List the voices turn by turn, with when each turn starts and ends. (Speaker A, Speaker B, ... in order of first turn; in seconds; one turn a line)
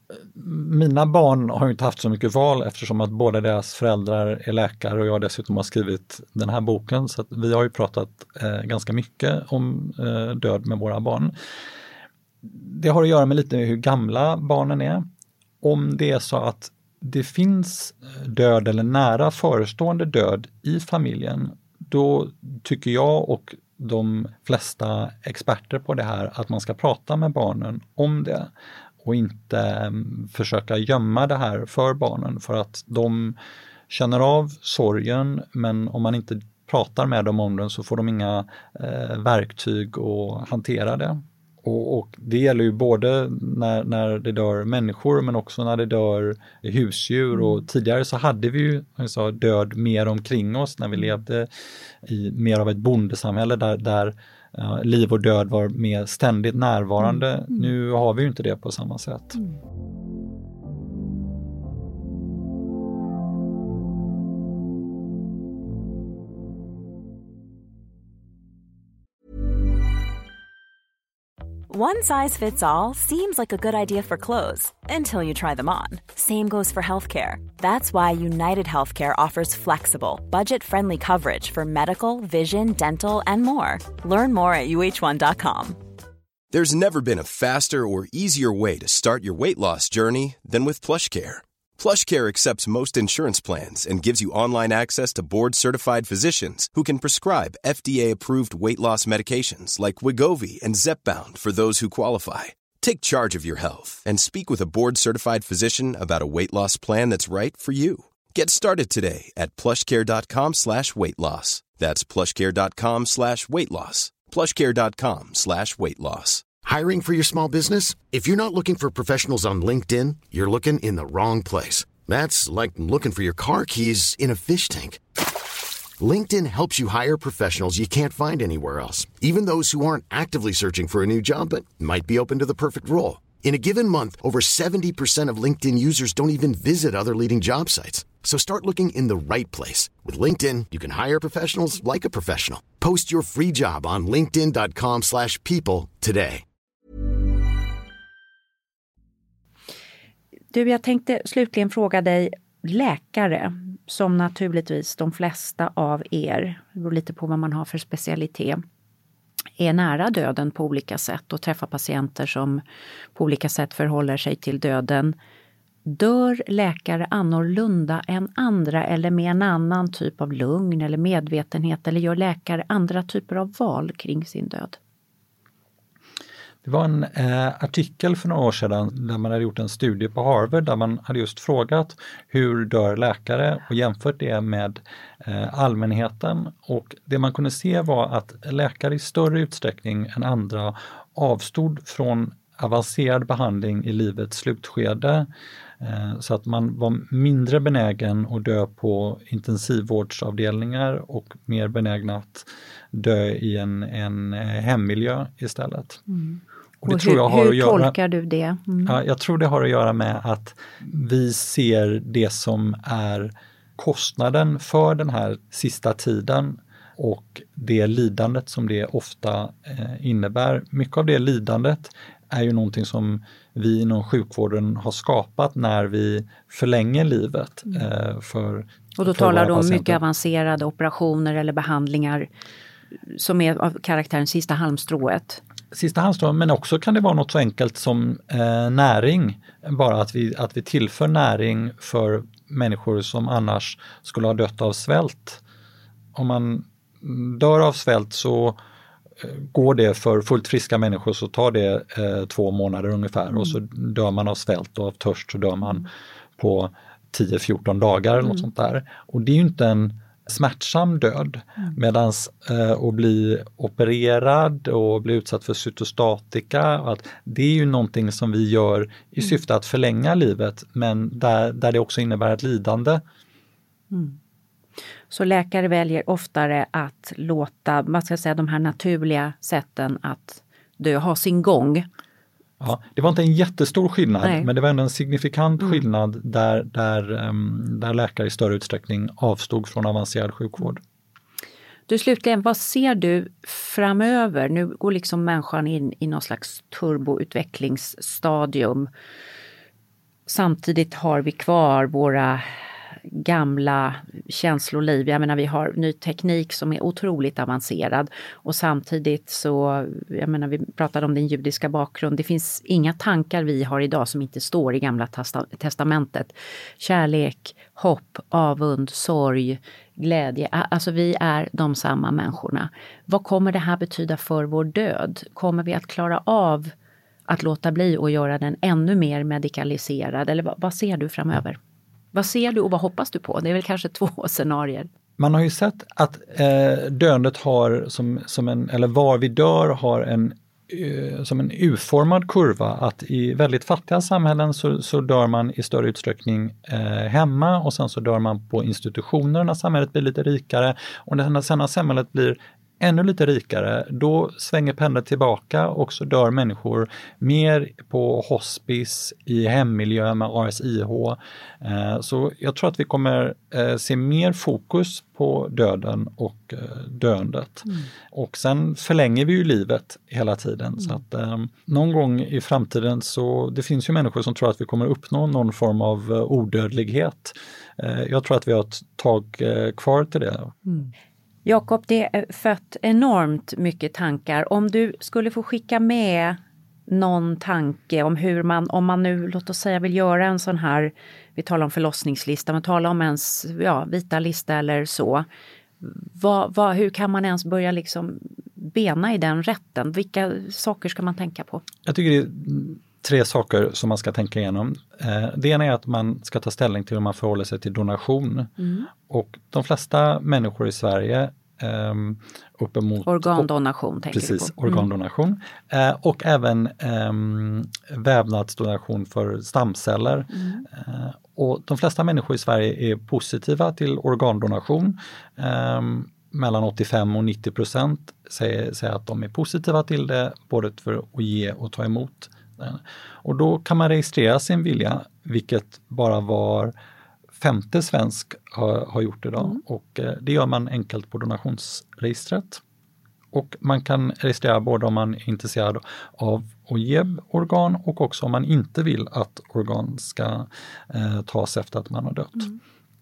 Speaker A: 0.2-11.3
Speaker A: 12.4-15.1
Speaker A: 15.6-28.5
Speaker A: 29.0-33.4
Speaker A: 33.9-51.5
Speaker A: 52.0-59.4
Speaker B: 57.1-57.7
Speaker C: 71.7-85.8
Speaker D: 86.5-116.5
Speaker E: 116.6-125.0
Speaker E: 126.0-146.4
Speaker B: 150.5-158.6
Speaker B: 159.6-162.6
Speaker B: 163.2-165.2
Speaker B: 165.8-174.8
Speaker A: 176.6-195.3
Speaker A: 195.8-206.0
Speaker B: 206.1-209.0
Speaker A: 206.8-207.9
Speaker A: 208.9-230.0
Speaker B: 229.0-232.3
Speaker B: 233.1-235.4
Speaker A: 235.7-245.4
Speaker A: 246.1-248.6
Speaker A: 249.2-273.0
Speaker B: 273.9-274.2
Speaker B: 275.1-281.9
Speaker A: 282.6-290.8
Speaker B: 284.2-284.5
Speaker B: 291.9-298.9
Speaker B: 300.3-326.7
Speaker B: 327.3-331.6
Speaker B: 332.1-334.9
Speaker A: 335.2-380.6
Speaker B: 380.7-380.9
Speaker B: 381.4-395.3
Speaker B: 395.8-401.6
Speaker A: 401.9-408.5
Speaker B: 408.6-408.9
Speaker A: 409.1-413.5
Speaker B: 413.1-414.9
Speaker A: 414.1-436.7
Speaker B: 420.3-420.7
Speaker A: 437.4-442.6
Speaker A: 443.3-452.5